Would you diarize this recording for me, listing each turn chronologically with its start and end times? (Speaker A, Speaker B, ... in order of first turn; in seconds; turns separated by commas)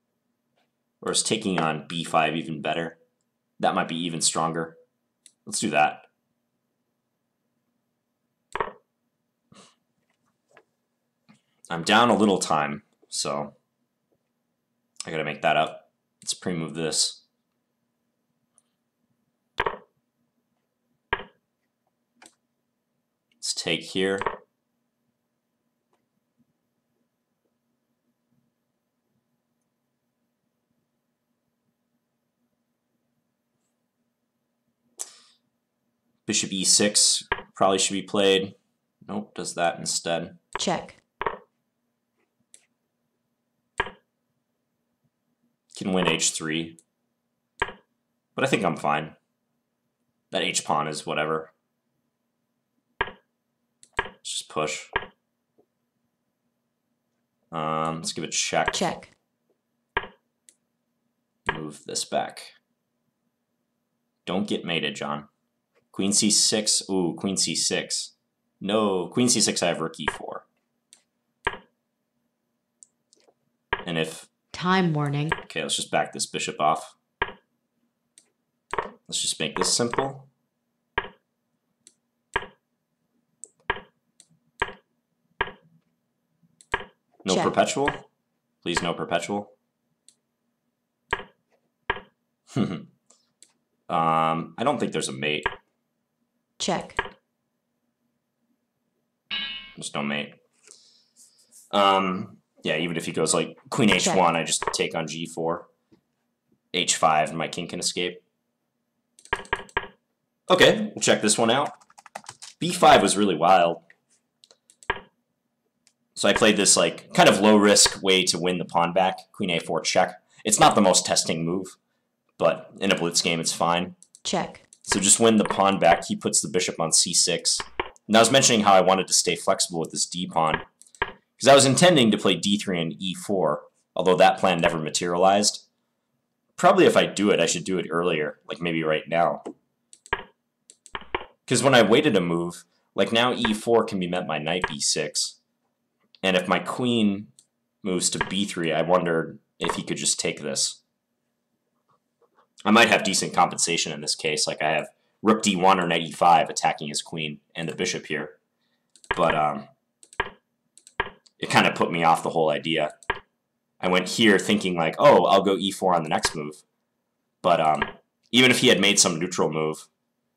Speaker A: 1.0-3.0, Speaker A: 3.6-4.8, Speaker A: 5.5-6.1, Speaker A: 11.7-13.6, Speaker A: 15.1-17.2, Speaker A: 23.4-24.3, Speaker A: 36.3-40.4, Speaker B: 40.6-41.0, Speaker A: 45.7-46.8, Speaker A: 48.4-49.2, Speaker A: 50.3-51.5, Speaker A: 54.2-54.9, Speaker A: 57.5-59.0, Speaker B: 58.7-59.1, Speaker A: 61.5-62.5, Speaker A: 64.2-65.3, Speaker A: 65.9-70.5, Speaker A: 73.8-74.3, Speaker B: 74.5-75.3, Speaker A: 75.4-77.0, Speaker A: 79.1-80.3, Speaker A: 87.2-88.1, Speaker A: 88.6-89.5, Speaker A: 92.5-92.9, Speaker A: 93.9-95.5, Speaker B: 96.6-97.0, Speaker A: 99.8-100.3, Speaker A: 101.7-105.7, Speaker A: 106.7-108.2, Speaker A: 110.5-111.7, Speaker A: 112.6-113.8, Speaker A: 116.2-121.8, Speaker A: 122.4-124.0, Speaker B: 124.2-124.6, Speaker A: 124.8-130.6, Speaker A: 131.4-135.7, Speaker A: 136.6-139.4, Speaker A: 141.5-145.4, Speaker A: 146.2-147.3, Speaker A: 147.8-150.8, Speaker A: 152.7-158.4, Speaker A: 159.2-159.7, Speaker A: 161.4-162.9, Speaker A: 163.8-166.6, Speaker A: 167.4-169.9